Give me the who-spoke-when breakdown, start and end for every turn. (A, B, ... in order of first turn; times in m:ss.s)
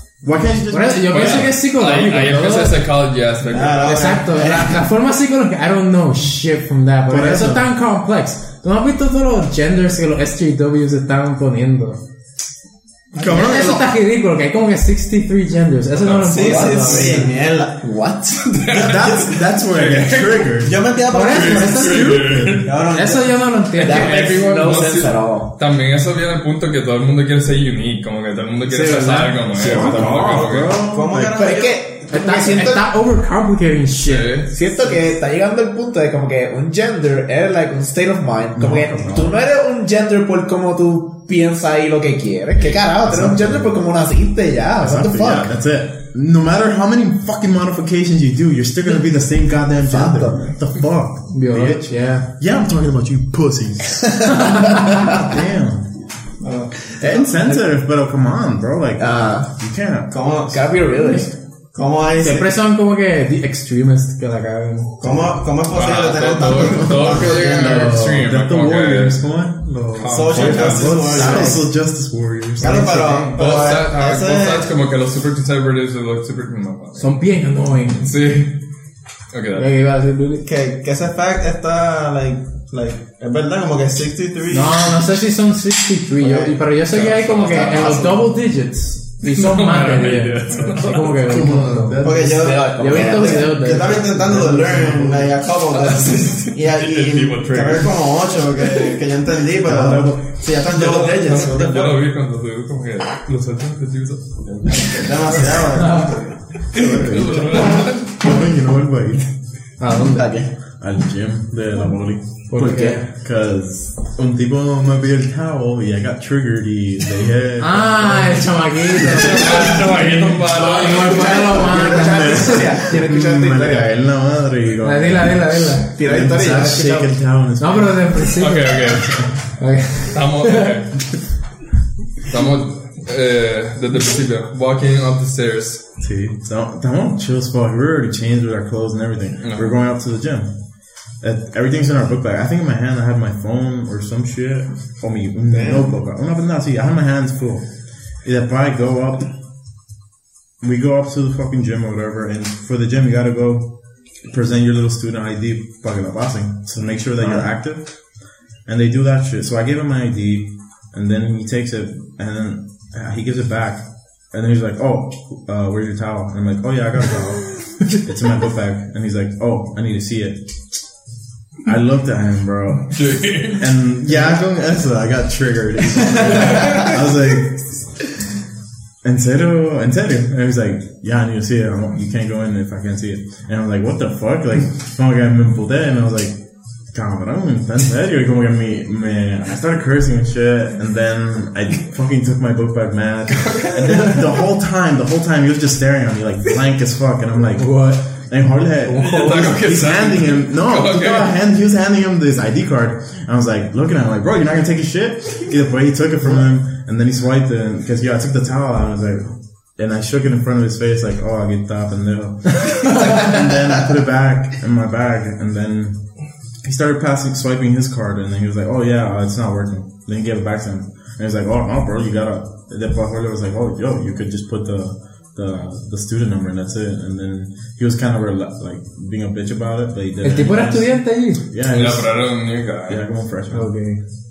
0:00.2-0:01.6 A
0:00.7-0:02.8 B
0:01.1-0:04.2 C
0:03.5-0:04.8 D
0:03.8-0:12.0 B
0:07.1-0:07.7 A
0:13.2-0:13.8 D
0:13.2-0:13.8 A
0:13.3-0:17.3 B
0:15.9-0:17.1 C
0:16.3-0:17.8 D
0:16.4-0:18.6 E
0:18.4-0:20.6 C
0:18.7-0:20.9 A
0:19.0-0:19.2 D
0:20.6-0:22.0 D
0:21.1-0:24.4 B
0:21.2-0:22.7 C
0:21.4-0:22.7 A
0:22.7-0:23.4 D
0:23.7-0:30.8 C
0:23.8-0:25.5 E
0:28.7-0:31.5 A
0:29.6-0:30.1 E
0:30.7-0:31.8 D
0:31.3-0:32.9 E
0:32.1-0:34.5 B
0:34.0-0:34.5 C
0:34.5-0:45.5 E
0:38.6-0:39.4 A
0:43.0-0:43.8 A
0:44.8-0:55.9 A
0:49.8-0:50.6 E
0:51.3-0:52.3 B
0:54.3-0:55.1 B
0:54.4-0:54.7 E
0:56.4-0:56.9 D
0:57.0-1:01.3 A
0:57.0-0:57.6 E
0:59.0-0:59.5 E
1:00.1-1:00.6 D
1:00.5-1:01.3 E
1:01.7-1:02.5 D
1:02.2-1:05.0 B
1:05.0-1:07.9 D
1:05.7-1:09.2 C
1:06.8-1:13.0 A
1:10.0-1:11.1 C
1:10.1-1:11.7 D
1:11.1-1:11.6 B
1:12.6-1:13.4 B
1:12.6-1:14.7 D
1:13.4-1:17.1 C
1:17.0-1:18.1 B
1:18.0-1:18.6 C
1:19.3-1:19.7 C
1:19.6-1:20.4 B
1:20.4-1:25.1 D
1:24.5-1:35.3 B
1:26.2-1:28.3 D
1:29.2-1:31.2 C
1:30.5-1:31.1 D
1:31.2-1:32.6 A
1:32.0-1:42.1 D
1:32.2-1:33.6 E
1:34.4-1:35.1 A
1:35.7-1:38.9 C
1:39.6-1:40.4 A
1:40.7-1:44.3 C
1:44.5-1:47.2 D
1:45.8-1:46.2 B
1:46.7-1:49.3 A
1:46.7-1:48.2 C
1:49.8-1:50.4 B
1:50.0-1:50.5 E
1:50.8-1:59.4 A
1:52.5-1:53.1 B
1:52.6-1:53.0 E
1:57.6-2:02.9 B
1:59.0-2:01.6 C
2:01.1-2:03.9 E
2:01.9-2:08.4 A
2:04.8-2:10.8 B
2:06.0-2:07.1 E
2:08.4-2:09.3 C
2:10.1-2:10.9 C
2:12.3-2:15.8 C
2:16.0-2:20.5 A
2:19.4-2:19.8 C
2:21.2-2:27.7 A
2:25.5-2:25.9 D
2:28.2-2:29.3 A
2:30.6-2:38.0 A
2:37.2-2:37.5 E
2:38.6-2:50.4 A
2:51.6-2:57.8 A
2:52.9-2:53.7 C
2:56.2-2:57.0 C
2:59.0-3:06.4 A
3:06.9-3:36.0 A
3:13.4-3:14.1 C
3:17.6-3:18.1 B
3:18.8-3:19.4 B
3:19.0-3:21.3 C
3:36.6-3:52.2 A
3:50.2-3:51.4 B
3:51.7-3:53.0 C
3:52.9-3:53.7 A
3:53.5-3:54.0 B